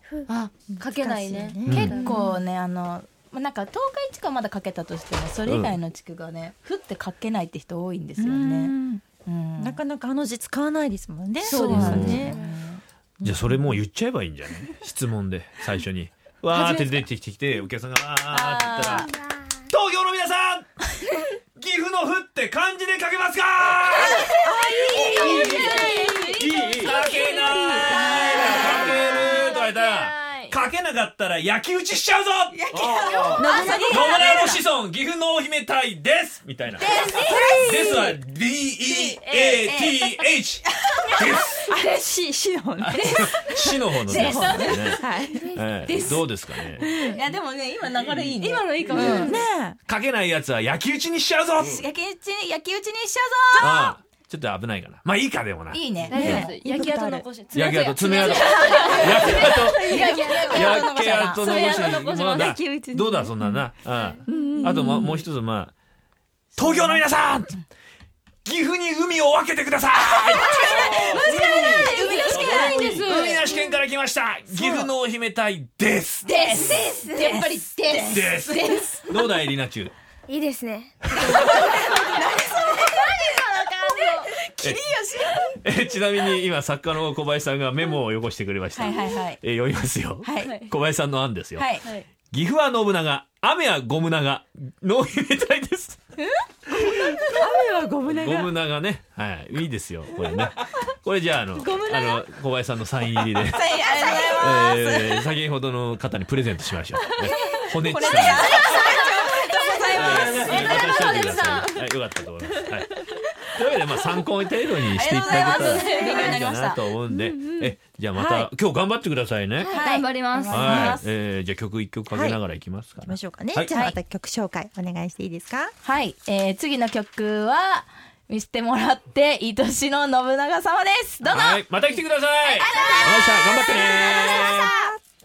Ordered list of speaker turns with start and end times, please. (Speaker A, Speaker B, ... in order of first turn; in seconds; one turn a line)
Speaker A: 0.3-2.3
Speaker B: 0.8-2.2
Speaker C: 1.7-2.0
Speaker D: 1.7-9.8
Speaker C: 5.5-5.8
Speaker B: 8.2-9.0
Speaker B: 9.6-12.4
Speaker A: 11.4-12.5
Speaker D: 11.5-12.8
Speaker C: 11.5-12.3
Speaker B: 13.2-13.8
Speaker C: 13.2-19.2
Speaker A: 16.5-17.0
Speaker D: 18.3-19.1
Speaker E: 19.0-19.5
Speaker C: 19.7-20.7
Speaker C: 21.6-40.6
Speaker D: 24.1-29.3
Speaker B: 24.4-25.4
Speaker A: 25.4-26.0
Speaker B: 27.3-28.1
Speaker A: 28.3-30.6
Speaker B: 32.7-34.5
Speaker D: 32.8-34.5
Speaker A: 33.4-34.4
Speaker D: 36.8-38.1
Speaker B: 37.2-38.1
Speaker D: 38.8-41.6
Speaker A: 39.3-39.6
Speaker C: 41.1-41.7
Speaker B: 41.7-43.3
Speaker C: 42.8-47.0
Speaker D: 43.0-46.3
Speaker B: 44.2-45.5
Speaker B: 46.8-47.2
Speaker D: 46.8-49.4
Speaker A: 48.3-49.4
Speaker B: 48.9-49.8
Speaker C: 49.9-51.8
Speaker D: 51.6-54.0
Speaker C: 53.6-56.5
Speaker D: 55.7-56.5
Speaker A: 56.1-60.8
Speaker B: 56.1-57.3
Speaker C: 57.5-65.7
Speaker D: 58.1-61.9
Speaker B: 58.3-60.6
Speaker A: 61.4-62.5
Speaker B: 61.8-63.6
Speaker A: 63.9-64.2
Speaker B: 64.3-65.1
Speaker D: 64.8-65.1
Speaker C: 66.5-67.6
Speaker D: 66.6-67.0
Speaker C: 68.5-76.8
Speaker D: 70.5-73.4
Speaker A: 70.8-73.5
Speaker A: 74.5-74.9
Speaker D: 76.2-79.2
Speaker E: 76.6-77.4
Speaker C: 77.9-79.9
Speaker E: 80.3-81.2
Speaker C: 81.0-81.7
Speaker D: 81.2-83.4
Speaker A: 82.1-84.3
Speaker D: 84.0-85.6
Speaker C: 85.5-91.7
Speaker D: 88.7-89.4
Speaker D: 90.2-90.6
Speaker A: 90.4-90.7
Speaker D: 91.6-91.9
Speaker C: 92.3-96.0
Speaker B: 96.8-98.5
Speaker C: 98.1-108.7
Speaker A: 101.5-102.3
Speaker D: 103.2-105.3
Speaker A: 103.8-104.5
Speaker D: 107.5-111.0
Speaker A: 108.2-111.8
Speaker C: 109.9-119.8
Speaker D: 114.9-116.8
Speaker A: 115.3-116.4
Speaker B: 118.2-118.5
Speaker E: 119.6-120.0
Speaker D: 119.7-121.1
Speaker A: 119.7-121.0
Speaker C: 120.5-123.8
Speaker B: 122.1-122.4
Speaker B: 123.0-125.8
Speaker D: 123.7-124.0
Speaker D: 125.8-131.6
Speaker C: 131.2-134.7
Speaker D: 132.5-134.9
Speaker B: 132.7-135.0